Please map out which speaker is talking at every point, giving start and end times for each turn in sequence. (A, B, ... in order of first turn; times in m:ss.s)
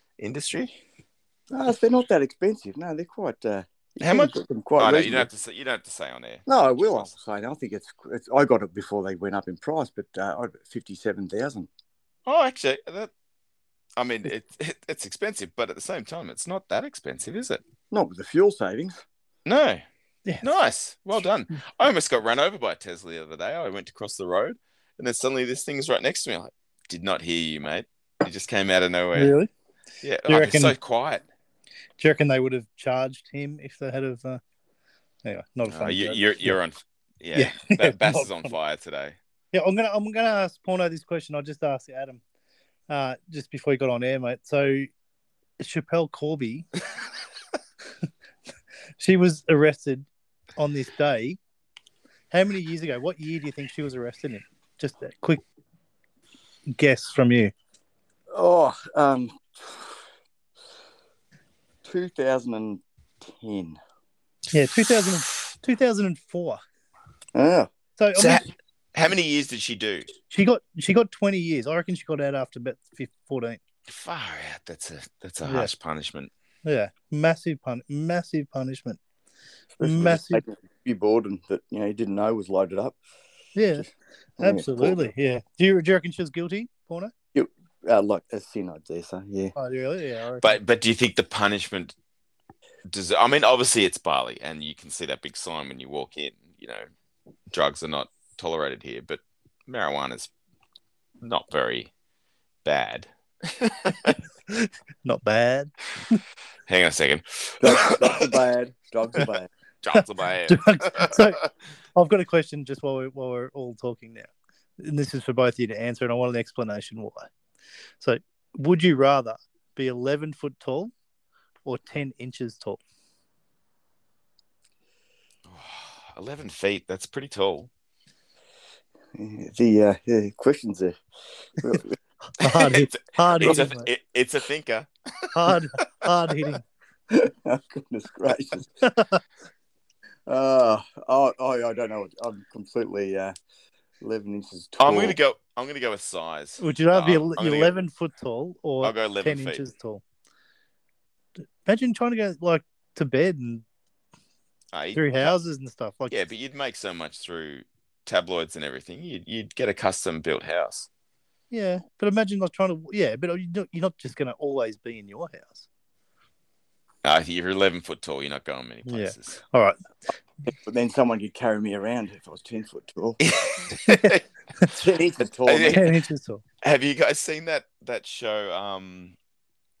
0:00.2-0:00.8 A
0:01.5-0:05.3 B
0:04.0-0:07.1 A
0:06.5-0:11.7 B
0:12.2-0:13.1 A
0:14.0-0:17.6 A
0:17.9-0:19.0 B
0:19.4-0:19.8 A
0:20.4-0:29.3 A
0:29.1-0:29.5 C
0:30.0-0:31.2 A
0:30.2-0:30.7 C
0:32.0-0:34.4 C
0:35.2-0:36.6 C
0:35.7-0:39.2 A
0:37.3-0:38.5 C
0:39.5-0:42.2 C
0:42.9-0:44.9 C
0:45.6-0:46.7 C
0:49.0-0:51.4 C
0:52.3-0:55.4 C
0:56.7-0:57.5 C
0:58.3-1:00.0 B
1:01.8-1:03.8 B
1:04.5-1:06.6 C
1:07.3-1:07.7 B
1:08.0-1:08.4 C
1:08.1-1:10.1 A
1:10.3-1:13.6 C
1:13.9-1:16.3 A
1:15.4-1:15.7 C
1:16.6-1:19.0 C
1:19.8-1:23.0 B
1:19.8-1:20.4 C
1:23.5-1:23.8 C
1:24.4-1:27.1 C
1:24.4-1:25.0 B
1:27.3-1:29.5 B
1:29.6-1:30.6 C
1:30.4-1:32.0 A
1:32.8-1:36.9 A
1:37.5-1:40.3 A
1:41.2-1:41.9 A
1:42.6-1:44.2 A
1:44.5-1:46.2 C
1:46.7-1:48.3 A
1:47.6-1:49.5 B
1:49.8-1:51.3 A
1:50.0-1:51.4 C
1:51.9-1:57.3 C
1:58.0-2:00.9 C
2:01.6-2:02.8 C
2:05.4-2:07.7 A
2:09.1-2:11.0 B
2:11.6-2:12.0 B
2:12.4-2:13.9 C
2:12.4-2:15.6 A
2:15.3-2:16.6 C
2:17.1-2:18.7 B
2:18.8-2:19.2 C
2:20.3-2:23.3 B
2:24.0-2:25.2 B
2:24.8-2:27.8 A
2:26.6-2:30.0 C
2:28.8-2:29.6 A
2:31.6-2:33.6 C
2:34.7-2:35.3 A
2:34.9-2:36.2 C
2:36.1-2:40.9 A
2:41.5-2:45.7 C
2:47.0-2:49.4 A
2:48.8-2:49.8 C
2:50.6-2:53.2 B
2:53.2-2:54.2 A
2:53.8-2:54.7 C
2:54.7-2:55.8 B
2:55.4-2:55.9 A
2:55.7-2:56.4 C
2:56.6-2:59.2 A